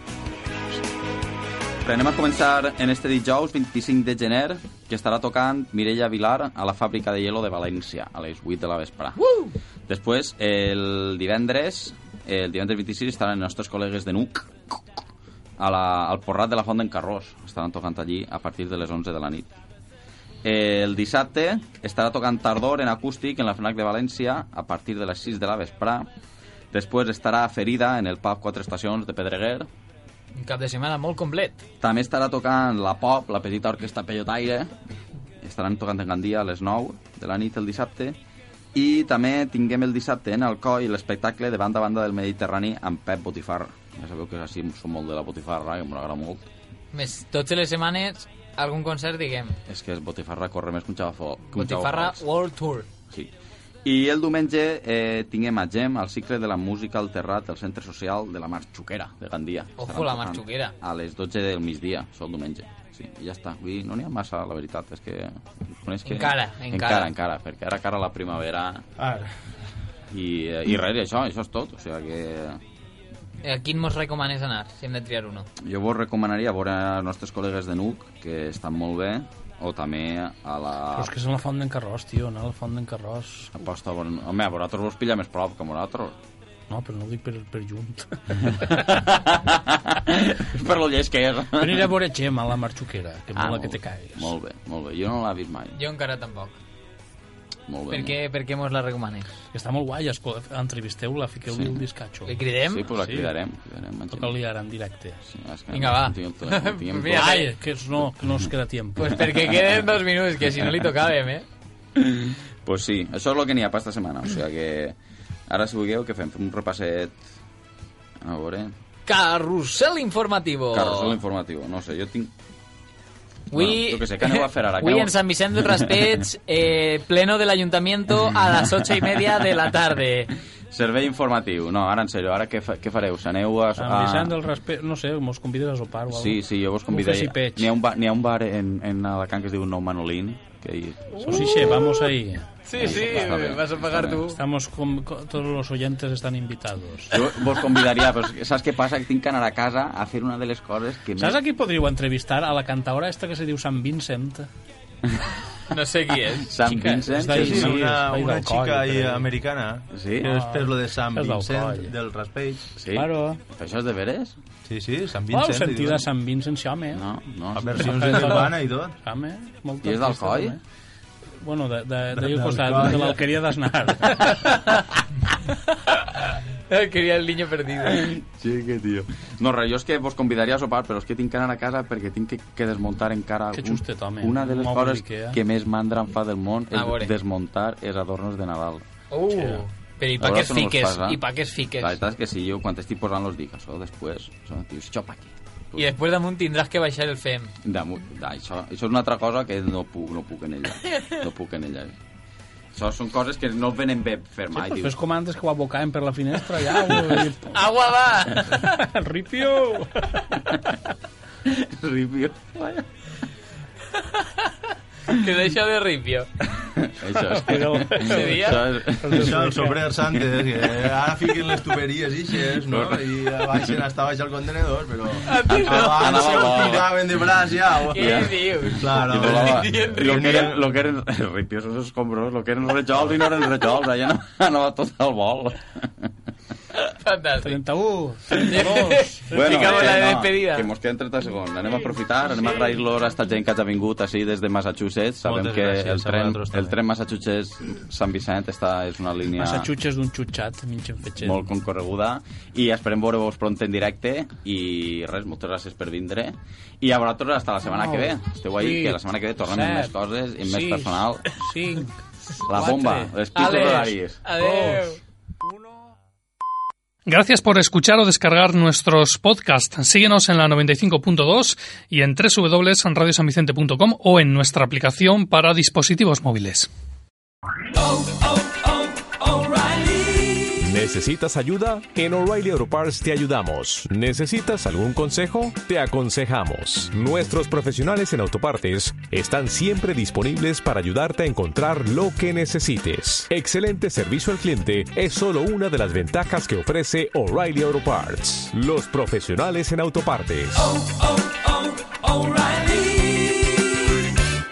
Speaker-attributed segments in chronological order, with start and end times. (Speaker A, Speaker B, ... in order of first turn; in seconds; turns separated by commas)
Speaker A: 1.8-15.0, Speaker A: 15.6-19.5, Speaker A: 20.4-26.1, Speaker A: 26.7-29.7, Speaker B: 30.4-31.6, Speaker A: 31.8-34.7, Speaker A: 35.4-38.1, Speaker A: 38.7-46.4, Speaker B: 46.9-49.6, Speaker A: 49.7-52.2, Speaker B: 51.5-52.9, Speaker A: 53.8-68.8, Speaker B: 59.8-60.7, Speaker B: 66.0-67.1, Speaker C: 69.0-69.3, Speaker A: 70.1-72.6, Speaker B: 73.4-75.5, Speaker A: 75.6-81.1, Speaker D: 80.9-83.6, Speaker A: 83.5-86.2, Speaker D: 86.7-88.7, Speaker A: 88.4-91.9, Speaker D: 91.6-94.3, Speaker A: 93.3-95.8, Speaker B: 95.7-96.6, Speaker A: 97.7-98.1, Speaker B: 97.9-99.3, Speaker D: 99.5-102.3, Speaker A: 101.5-101.8, Speaker B: 102.2-102.9, Speaker A: 102.6-104.4, Speaker D: 102.9-103.3, Speaker D: 104.1-105.2, Speaker A: 105.2-107.5, Speaker B: 105.7-107.5, Speaker D: 107.1-109.3, Speaker B: 109.0-111.4, Speaker A: 109.3-109.7, Speaker A: 111.9-115.0, Speaker A: 115.5-117.2, Speaker A: 118.2-118.7, Speaker B: 119.0-121.2, Speaker A: 120.7-122.3, Speaker B: 123.5-130.3, Speaker A: 123.5-126.2, Speaker A: 128.1-129.1, Speaker A: 130.7-134.4, Speaker D: 133.8-136.4, Speaker A: 136.1-141.7, Speaker D: 136.9-137.7, Speaker B: 141.2-142.0, Speaker D: 141.2-143.1, Speaker B: 142.7-144.4, Speaker A: 142.7-144.3, Speaker D: 144.3-147.2, Speaker A: 147.1-151.4, Speaker D: 151.2-154.5, Speaker B: 155.7-157.0, Speaker A: 156.4-157.9, Speaker D: 157.1-159.3, Speaker C: 157.3-162.7, Speaker A: 159.9-160.3, Speaker D: 160.2-161.9, Speaker A: 162.8-164.4, Speaker D: 162.9-163.4, Speaker C: 164.6-166.1, Speaker D: 165.3-170.6, Speaker A: 166.9-168.3, Speaker C: 167.6-169.0, Speaker A: 169.8-170.6, Speaker D: 171.4-174.4, Speaker C: 172.2-173.2, Speaker B: 174.4-174.9, Speaker B: 175.7-178.1, Speaker A: 177.8-188.8, Speaker D: 183.5-185.4, Speaker B: 186.7-187.1, Speaker B: 189.1-191.9, Speaker A: 190.2-191.2, Speaker A: 191.8-195.9, Speaker B: 195.8-197.5, Speaker A: 197.6-201.9, Speaker B: 200.8-201.2, Speaker A: 202.7-204.9, Speaker D: 204.5-207.6, Speaker B: 207.5-208.7, Speaker D: 208.5-210.4, Speaker A: 211.4-212.9, Speaker B: 213.9-214.5, Speaker B: 215.1-216.3, Speaker A: 216.5-219.6, Speaker D: 217.1-219.9, Speaker B: 218.0-218.7, Speaker C: 219.1-230.8, Speaker A: 220.6-220.9, Speaker A: 222.6-223.7, Speaker B: 225.2-226.9, Speaker A: 225.3-227.0, Speaker B: 227.8-230.5, Speaker A: 227.9-236.1, Speaker B: 237.0-237.6, Speaker D: 237.4-239.8, Speaker A: 238.3-238.7, Speaker B: 238.4-240.7, Speaker A: 239.3-249.7, Speaker C: 245.2-246.8, Speaker D: 249.3-251.4, Speaker A: 251.2-261.3, Speaker D: 257.6-263.1, Speaker A: 262.4-264.2, Speaker B: 263.3-265.0, Speaker D: 264.4-264.9, Speaker D: 265.4-265.9, Speaker E: 267.1-276.7, Speaker F: 277.7-280.7, Speaker G: 280.6-300.6, Speaker F: 300.5-303.9